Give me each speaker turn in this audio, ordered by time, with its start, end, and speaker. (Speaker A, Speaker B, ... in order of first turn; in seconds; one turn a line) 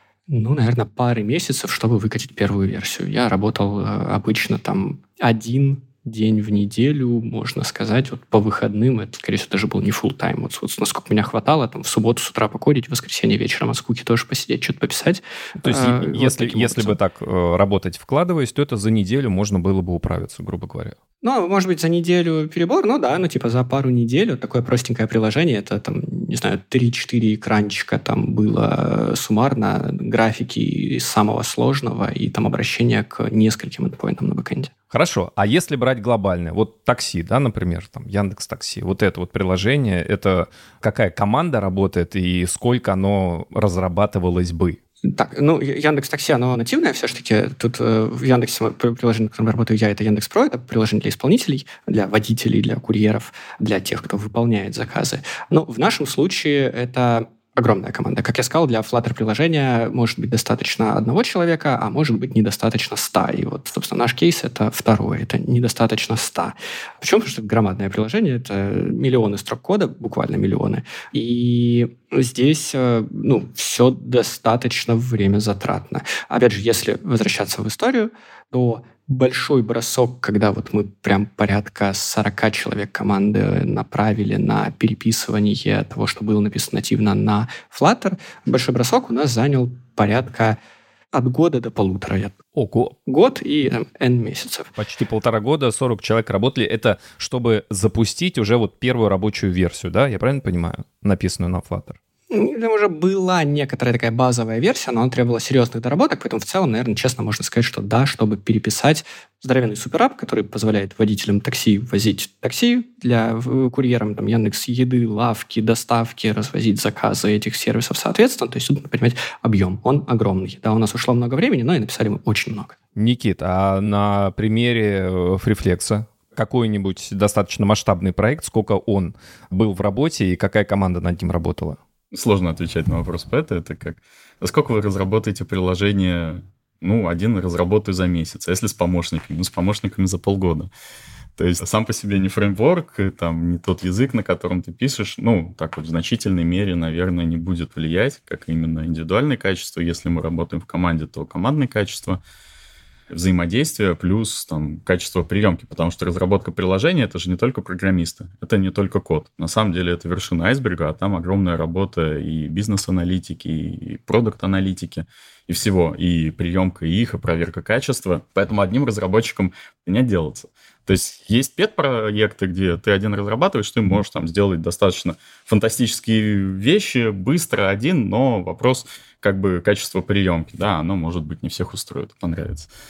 Speaker A: 0.3-17.0
Speaker B: 15.6-20.9
Speaker A: 21.2-34.7
Speaker B: 34.9-44.8
Speaker A: 45.0-90.6
Speaker A: 91.1-92.4
Speaker B: 92.5-92.9
Speaker A: 93.0-94.7
Speaker B: 94.8-102.0
Speaker A: 102.3-122.7
Speaker B: 123.0-131.8
Speaker C: 132.1-140.7
Speaker C: 141.4-152.2
Speaker C: 153.1-182.7